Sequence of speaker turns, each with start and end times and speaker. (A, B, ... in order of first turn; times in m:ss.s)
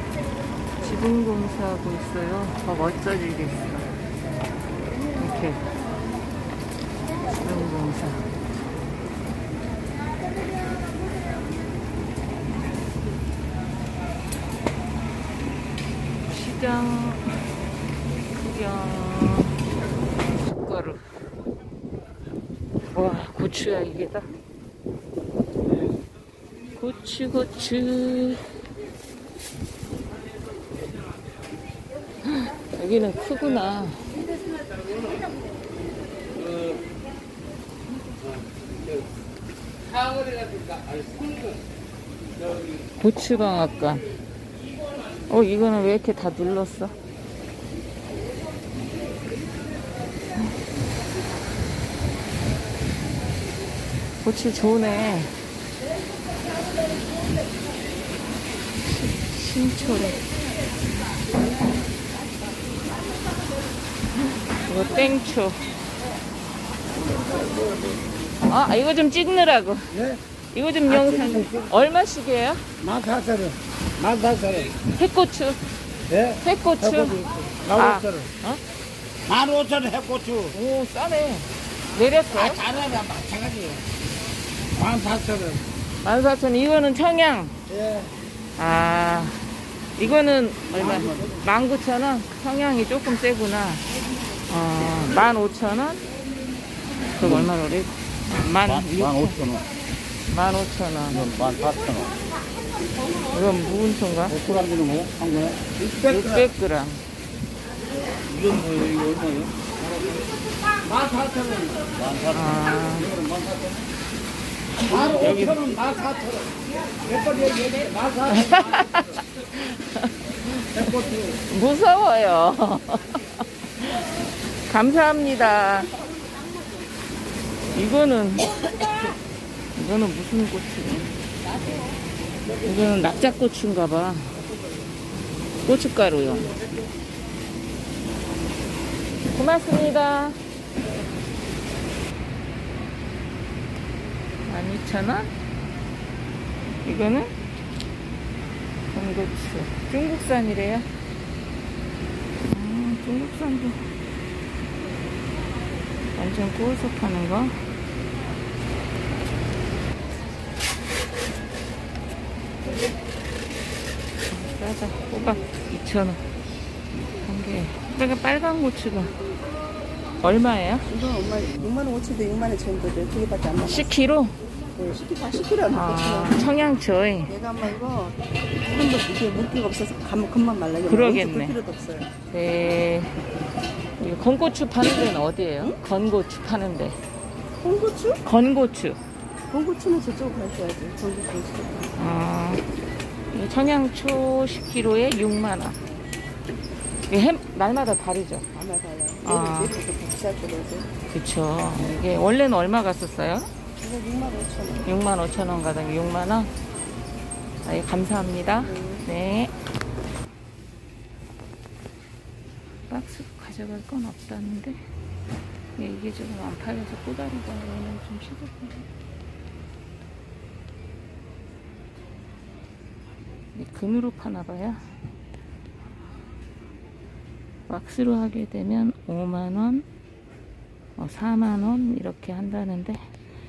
0:00.7-0:04.0 A
0:05.1-0:05.6 A
0:07.3-0:08.3 A
0:16.2-0:17.4 A
0:18.3-0:19.6 A
0:20.2-0:21.0 A
0:22.9-0:24.3 A
0:26.8-0:28.4 A
0:32.2-0:34.1 A
0:43.0-0:44.1 A
0:45.3-0:46.9 A
0:54.2-0:55.4 A
0:58.8-1:00.3 A
1:04.6-1:05.6 A
1:08.4-1:12.6 A
1:14.0-1:14.5 B
1:14.8-1:15.6 A
1:16.3-1:18.6 A
1:19.3-1:20.5 B
1:20.5-1:22.8 A
1:22.7-1:23.8 B
1:24.8-1:25.1 B
1:26.0-1:27.5 A
1:28.6-1:29.4 A
1:30.0-1:33.8 A
1:34.5-1:36.1 A
1:37.1-1:39.6 A
1:38.7-1:39.6 B
1:40.3-1:41.3 A
1:41.1-1:42.1 B
1:43.3-1:44.5 A
1:44.4-1:45.9 B
1:45.9-1:47.0 A
1:48.3-1:49.6 B
1:51.8-1:53.9 B
1:52.3-1:53.2 A
1:54.8-1:56.4 B
1:58.3-2:03.2 A
2:04.7-2:06.0 A
2:07.7-2:08.6 A
2:09.7-2:11.2 A
2:12.6-2:14.4 A
2:15.6-2:16.5 A
2:19.3-2:20.4 A
2:24.4-2:25.3 A
2:26.8-2:27.3 A
2:28.9-2:30.9 A
2:32.4-2:33.8 A
2:36.1-2:37.6 A
2:44.3-2:46.2 A
2:47.1-2:49.1 A
2:50.2-2:50.8 A
2:50.9-2:53.9 C
2:53.6-2:54.4 A
2:54.8-2:56.4 C
2:55.7-2:57.3 A
2:57.3-3:02.1 C
3:00.8-3:01.6 A
3:02.3-3:03.2 A
3:04.0-3:07.0 A
3:07.6-3:08.2 C
3:08.2-3:09.0 A
3:09.5-3:11.9 C
3:12.0-3:12.6 A
3:13.3-3:15.8 A
3:17.1-3:18.4 A
3:18.5-3:20.9 C
3:19.2-3:19.8 A
3:21.1-3:23.5 A
3:23.8-3:24.9 C
3:24.8-3:26.5 A
3:27.6-3:29.5 A
3:28.6-3:29.0 C
3:32.9-3:34.8 A
3:35.8-3:38.9 A
3:43.5-3:44.8 A
3:47.7-3:49.8 A
3:51.0-3:53.0 A